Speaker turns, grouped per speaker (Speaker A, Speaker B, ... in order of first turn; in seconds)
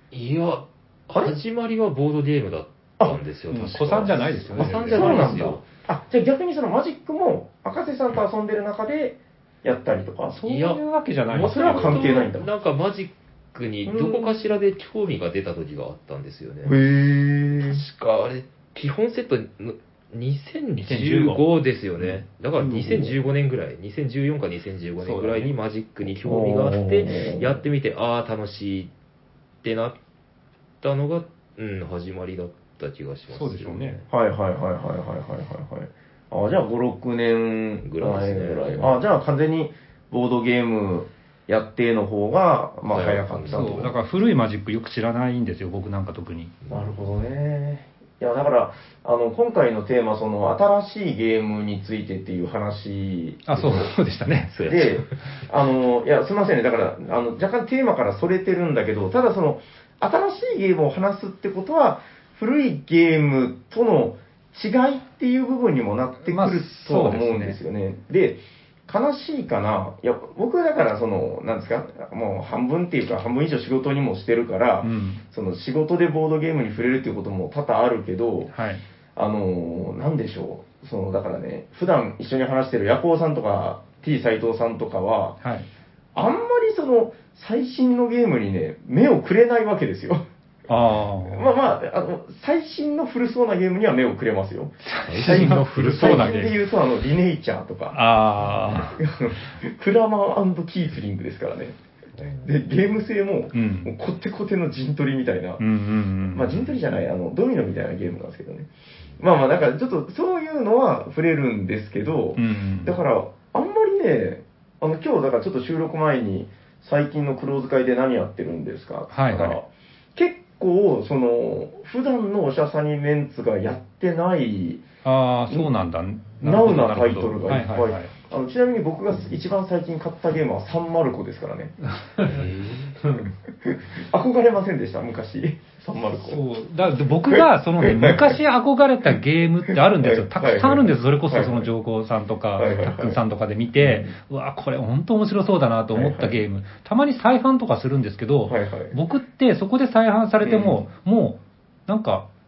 Speaker A: 0.1-5.6, 10.4-10.8, 11.3-16.8, 17.6-28.9, 29.6-30.0, 30.8-34.1, 37.8-39.0, 42.9-43.6, 54.5-55.2, 95.0-96.3, 102.2-102.5, 132.2-133.0
Speaker B: 3.5-5.3, 10.3-12.3, 20.9-21.4, 25.0-25.5, 33.3-34.0, 43.5-46.5, 53.5-54.5, 66.3-67.6, 74.8-75.2, 78.5-78.8, 85.4-85.7, 90.7-91.5, 94.8-96.6, 97.9-99.0, 103.5-103.9, 105.6-106.7, 112.4-113.0, 119.1-119.6, 125.0-128.1, 132.0-132.4, 132.9-133.3, 136.2-152.3
Speaker C: 4.6-10.4, 11.3-12.5, 13.9-14.4, 16.6-17.8, 22.6-23.2, 26.2-27.6, 34.1-44.0, 46.7-53.9, 54.7-78.5, 79.2-85.4, 86.2-90.3, 91.3-98.0, 98.7-101.8, 102.4-105.6, 106.3-124.8, 126.4-132.4, 133.3-136.4, 137.3-138.4, 139.7-141.7, 142.6-143.2, 143.8-144.1, 145.9-146.4, 148.5-148.9, 150.4-150.8